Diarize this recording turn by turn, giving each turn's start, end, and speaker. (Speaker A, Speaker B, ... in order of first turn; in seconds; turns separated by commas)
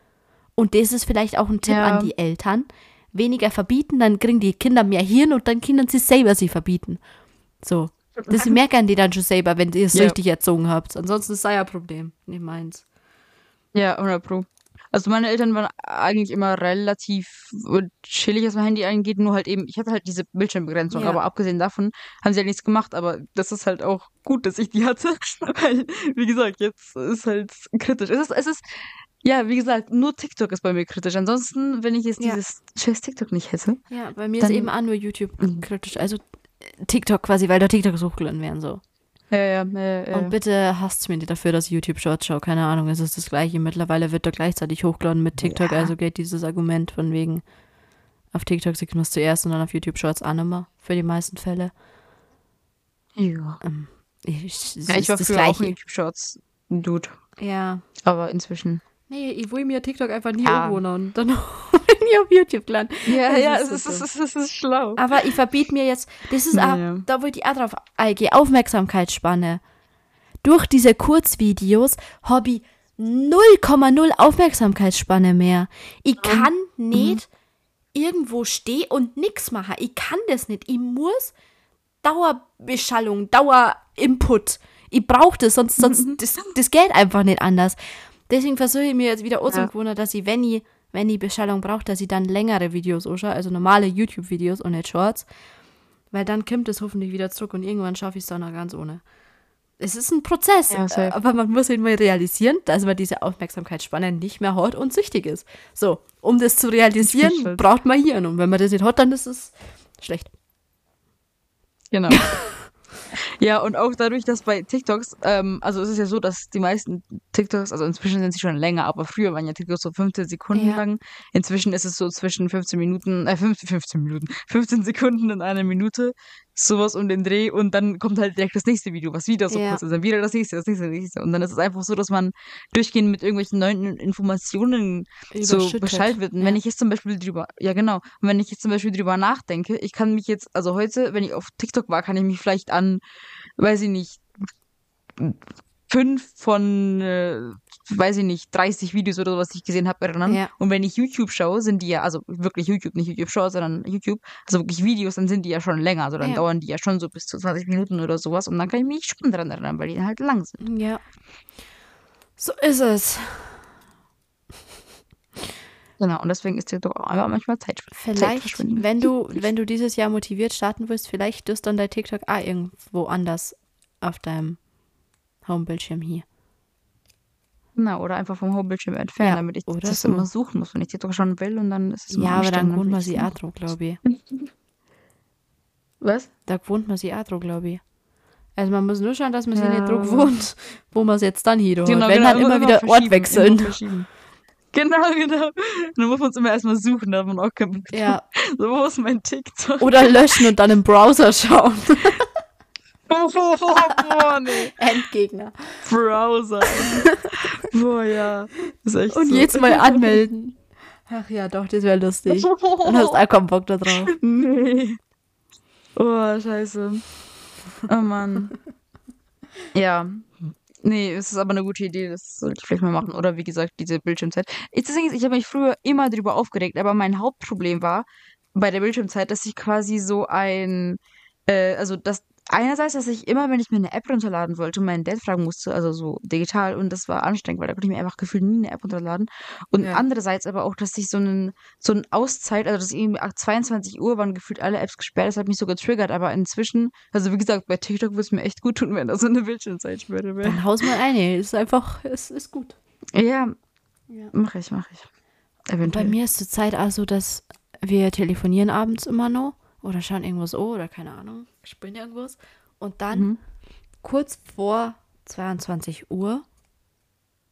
Speaker A: 0.6-7.0, Speaker B: 1.7-2.1, Speaker A: 7.6-12.8, Speaker B: 8.2-8.5, Speaker B: 13.7-33.8, Speaker A: 20.9-21.2, Speaker A: 33.9-38.8, Speaker B: 34.4-34.7, Speaker B: 35.4-35.6, Speaker B: 39.3-40.3, Speaker A: 40.1-47.4, Speaker B: 45.4-45.9, Speaker A: 48.3-51.7, Speaker B: 53.1-53.6, Speaker A: 53.6-55.7, Speaker B: 54.9-57.1, Speaker A: 57.4-57.8, Speaker B: 58.0-58.8, Speaker A: 59.1-64.1, Speaker B: 60.4-60.8, Speaker B: 63.0-65.0, Speaker A: 65.0-69.6, Speaker B: 66.5-67.0, Speaker A: 70.4-77.3, Speaker B: 76.2-77.2, Speaker A: 77.9-81.3, Speaker A: 82.0-87.8, Speaker B: 85.8-86.2, Speaker A: 88.3-95.2, Speaker A: 96.1-99.0, Speaker A: 99.8-110.3, Speaker B: 100.7-101.2, Speaker B: 107.0-107.6, Speaker B: 111.9-112.3, Speaker B: 113.1-143.0, Speaker A: 120.5-120.8, Speaker A: 129.5-129.8, Speaker A: 135.3-136.6, Speaker B: 143.6-144.2, Speaker B: 145.2-160.6, Speaker A: 150.2-150.5, Speaker A: 156.2-156.4, Speaker A: 160.6-161.0, Speaker A: 162.4-163.7, Speaker B: 166.0-169.1, Speaker A: 167.9-174.6, Speaker A: 175.4-176.2, Speaker B: 177.8-183.3, Speaker A: 179.2-180.3, Speaker A: 182.1-184.0, Speaker B: 184.1-184.5, Speaker B: 186.0-186.3, Speaker A: 186.5-187.8, Speaker A: 188.6-193.8, Speaker B: 189.5-190.3, Speaker B: 191.8-194.1, Speaker B: 194.7-200.4, Speaker A: 197.9-198.2, Speaker A: 199.8-202.3, Speaker B: 203.1-204.8, Speaker A: 204.7-205.9, Speaker B: 205.8-210.2, Speaker A: 206.7-207.3, Speaker A: 209.1-214.1, Speaker B: 212.3-213.2, Speaker B: 214.0-215.0, Speaker B: 215.9-217.1, Speaker B: 217.8-218.5, Speaker B: 219.7-250.9, Speaker A: 239.8-240.0, Speaker A: 250.4-252.8, Speaker B: 253.1-253.5, Speaker B: 254.3-255.1, Speaker B: 255.7-256.1, Speaker A: 255.8-263.3, Speaker B: 263.1-263.4, Speaker A: 264.0-266.4